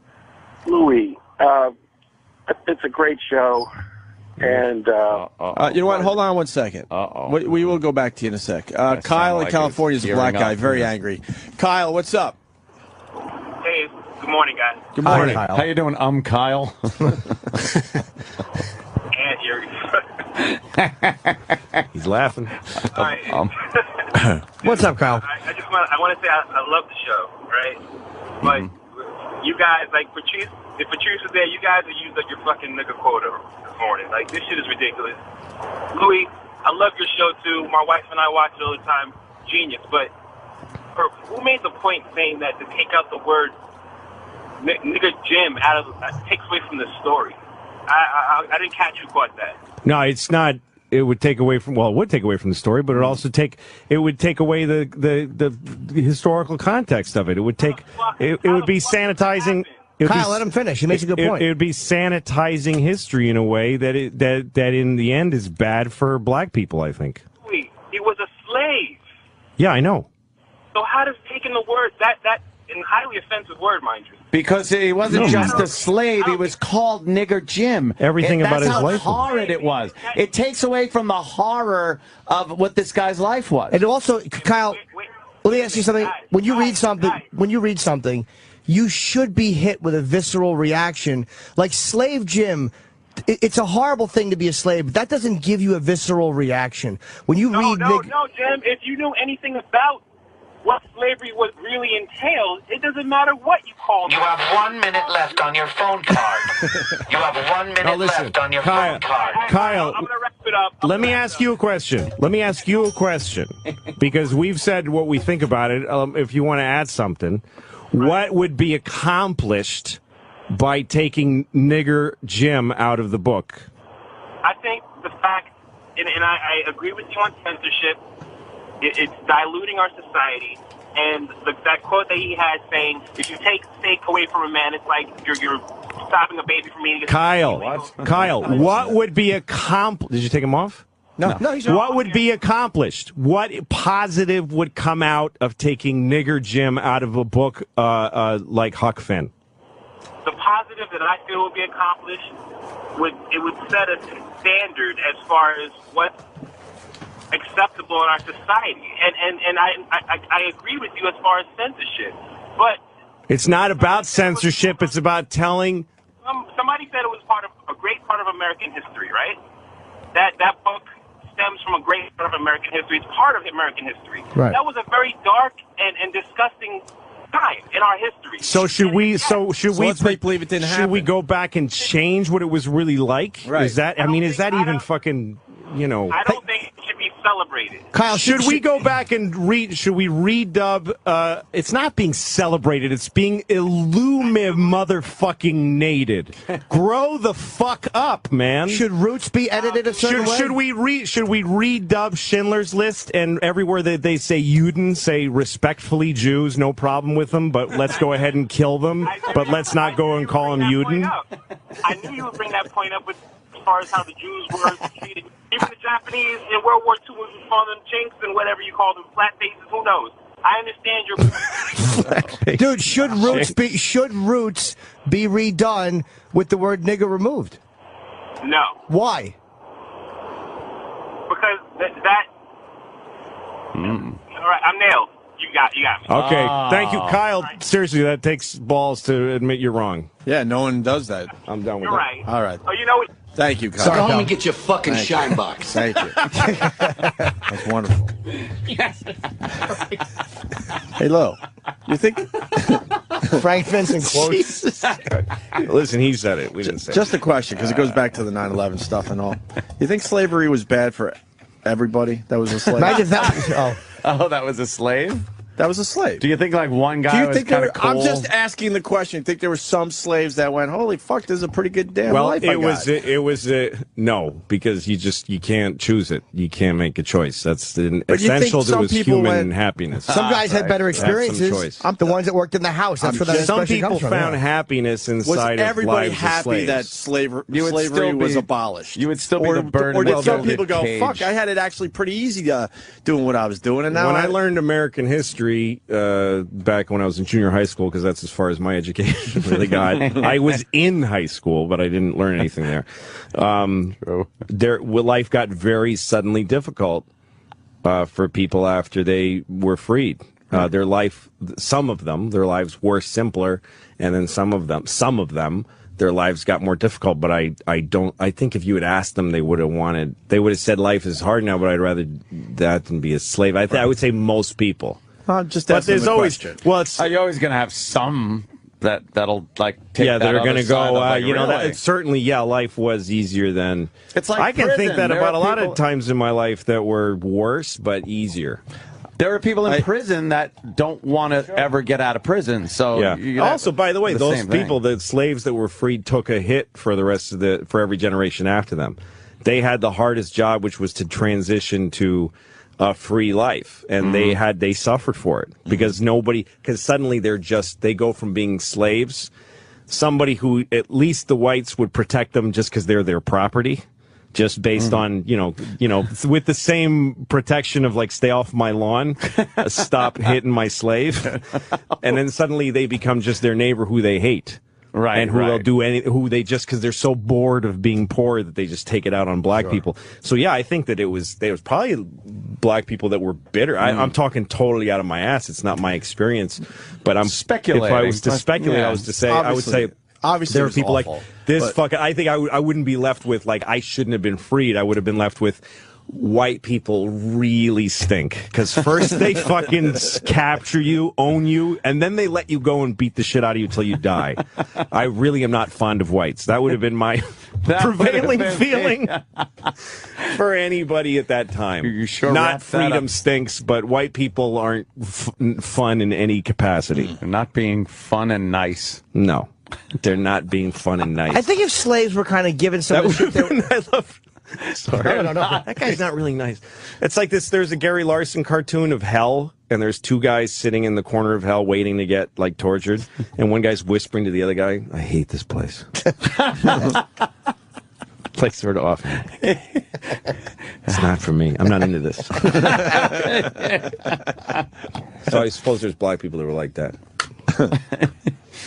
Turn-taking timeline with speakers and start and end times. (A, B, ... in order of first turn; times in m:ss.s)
0:00.7-0:01.7 A
0:02.5-0:03.7 A
0:04.4-0:05.2 A
0:05.1-0:06.2 B
0:05.5-0:12.4 C
0:06.9-0:07.4 B
0:08.9-0:10.9 B
0:13.6-0:15.0 D
0:15.0-0:15.5 C
0:15.0-0:17.4 B
0:15.0-0:15.6 E
0:15.1-0:15.4 F
0:19.1-0:20.0 D
0:20.4-0:21.8 B
0:21.9-0:23.0 F
0:22.9-0:27.8 D
0:23.3-0:23.5 B
0:24.6-0:25.3 E
0:28.4-0:28.7 B
0:28.4-0:35.2 D
0:35.9-0:40.1 D
0:41.0-0:43.6 D
0:44.6-0:49.6 D
0:49.8-1:07.2 F
0:57.6-0:59.9 D
1:00.0-1:01.5 E
1:07.4-1:09.0 D
1:09.6-1:10.1 F
1:10.7-1:14.2 D
1:14.3-1:23.8 B
1:15.1-1:15.7 F
1:15.1-1:16.5 D
1:18.0-1:19.2 F
1:18.7-1:20.2 D
1:23.7-1:24.8 E
1:24.4-1:27.3 D
1:25.4-1:32.7 E
1:33.3-1:38.1 E
1:37.5-1:40.0 D
1:40.6-1:45.4 D
1:44.0-1:49.5 G
1:47.8-1:50.1 F
1:48.8-1:51.5 D
1:50.8-2:00.0 F
1:58.0-1:58.2 D
2:00.5-2:03.7 F
2:04.4-2:08.0 D
2:08.8-2:18.8 D
2:17.1-2:20.8 F
2:18.0-2:18.8 C
2:21.2-2:21.8 E
2:21.5-2:29.3 F
2:21.5-2:22.2 D
2:30.2-2:32.3 D
2:33.0-2:36.2 D
2:37.3-2:42.8 D
2:43.3-2:45.9 F
2:43.6-2:45.0 D
2:46.2-2:49.4 D
2:50.1-2:59.4 D
2:54.3-2:54.6 E
2:58.4-3:06.2 F
2:59.7-3:01.1 C
3:03.4-3:03.8 C
3:04.0-3:04.8 D
3:06.1-3:07.9 D
3:07.9-3:08.7 E
3:08.1-3:18.8 F
3:14.2-3:14.8 D
3:18.7-3:20.6 E
3:19.6-3:20.4 D
3:20.0-3:31.1 F
3:27.9-3:28.2 D
3:29.0-3:31.3 D
3:31.8-3:42.2 D
3:41.9-3:43.5 F
3:42.5-3:47.6 E
3:48.4-3:48.8 D
3:48.9-3:49.4 E
3:51.3-3:52.3 D
3:53.7-3:54.2 B
3:54.3-3:56.1 D
3:56.1-4:00.1 F
3:56.1-3:57.3 B
4:00.2-4:01.3 C
4:01.5-4:02.1 F
4:01.8-4:03.1 D
4:02.2-4:02.6 C
4:03.3-4:04.1 C
4:03.8-4:04.4 E
4:04.8-4:06.2 C
4:07.4-4:08.1 C
4:11.0-4:13.4 C
4:13.3-4:14.5 E
4:14.1-4:17.1 F
4:16.7-4:23.2 C
4:22.7-4:25.3 B
4:22.8-4:23.8 E
4:25.6-4:26.2 C
4:26.2-4:28.3 B
4:27.0-4:32.9 C
4:32.1-4:41.8 F
4:38.1-4:39.5 C
4:40.1-4:40.9 B
4:40.1-4:44.4 E
4:41.8-4:42.2 C
4:43.0-4:43.6 C
4:43.3-4:46.9 F
4:45.2-4:54.4 C
4:47.5-4:51.3 B
4:50.0-4:50.5 F
4:53.9-5:07.1 F
5:00.0-5:00.4 B
5:04.0-5:04.3 B
5:07.8-5:25.0 F
5:25.3-5:26.6 C
5:25.7-5:27.1 F
5:27.0-5:31.8 B
5:30.0-5:38.6 F
5:34.1-5:35.8 B
5:39.2-5:44.8 B
5:42.9-5:59.3 F
5:54.0-5:54.4 B
5:55.7-5:55.9 C
5:59.9-6:11.4 F
6:04.8-6:05.0 B
6:12.0-6:14.6 F
6:14.9-6:15.7 B
6:15.1-6:30.0 F
6:23.8-6:24.1 B
6:27.2-6:29.0 B
6:29.3-6:31.8 C
6:30.5-6:49.2 F
6:47.6-6:49.7 B
6:50.2-6:57.2 F
6:51.8-6:53.1 B
6:57.1-6:59.0 B
6:59.1-7:01.4 F
7:01.3-7:03.6 E
7:02.9-7:15.9 F
7:04.8-7:06.0 B
7:05.0-7:05.6 E
7:18.4-7:19.3 F
7:20.9-7:23.1 F
7:22.4-7:24.2 B
7:25.3-7:27.0 F